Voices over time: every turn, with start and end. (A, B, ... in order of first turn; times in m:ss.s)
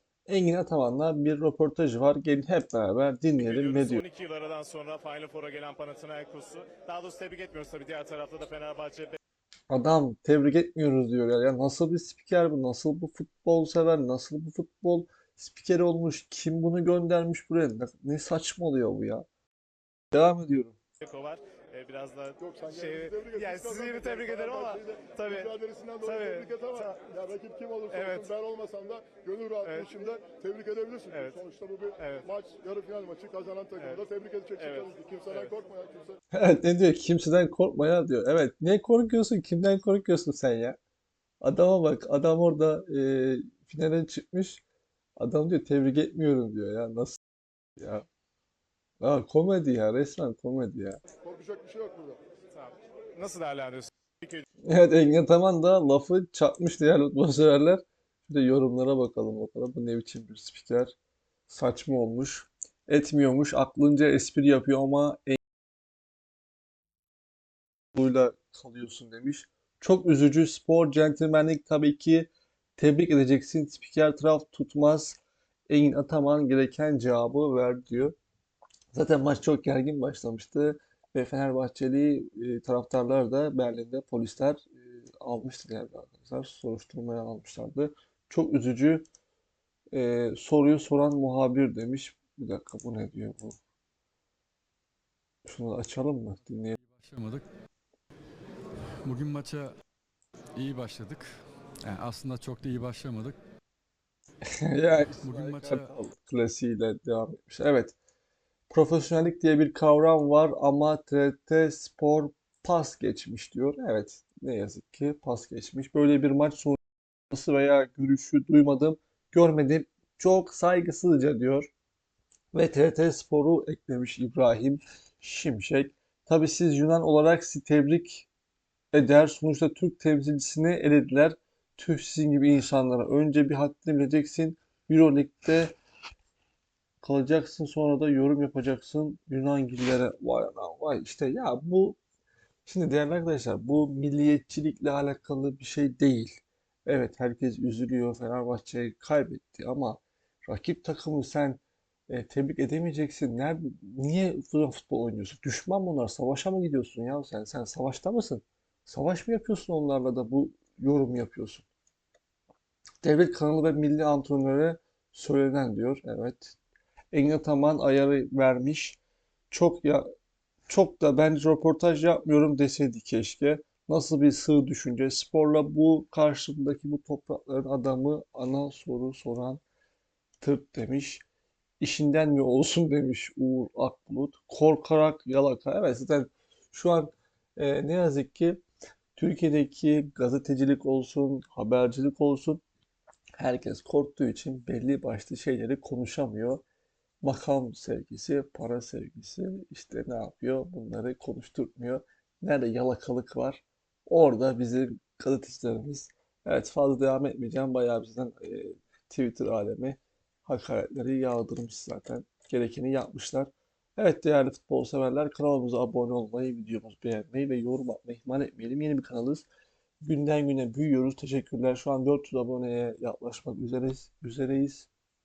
0:00.3-0:04.0 A
0:03.4-0:09.2 B
0:09.7-0:19.3 A
0:20.1-0:20.8 A
0:21.0-0:27.0 B
0:22.4-0:36.2 C
0:27.9-0:28.3 B
0:29.6-0:29.9 B
0:31.1-0:31.4 B
0:32.0-0:32.3 B
0:33.8-0:34.0 B
0:34.6-0:35.5 B
0:36.3-0:40.8 A
0:41.4-0:44.6 A
0:45.2-0:47.2 A
0:47.8-0:48.1 A
0:49.0-0:51.0 A
0:51.2-0:52.2 C
0:52.5-0:54.5 B
0:54.6-1:01.0 A
1:01.5-1:05.4 A
1:08.0-1:18.1 A
1:18.9-1:29.0 A
1:29.9-1:33.6 A
1:35.5-1:36.8 A
1:36.8-1:37.5 D
1:39.0-1:39.7 D
1:40.6-1:41.3 D
1:41.8-1:43.4 D
1:44.4-1:48.0 A
1:45.2-1:45.9 D
1:48.7-2:01.7 A
2:02.5-2:08.3 A
2:08.9-2:15.8 A
2:17.0-2:22.0 A
2:22.7-2:41.7 A
2:43.0-2:46.6 A
2:47.1-2:49.0 A
2:49.5-2:50.1 A
2:50.7-2:59.6 A
3:00.4-3:01.2 A
3:01.8-3:08.6 A
3:09.2-3:12.6 A
3:13.4-3:16.6 A
3:17.2-3:39.5 A
3:40.0-3:44.9 A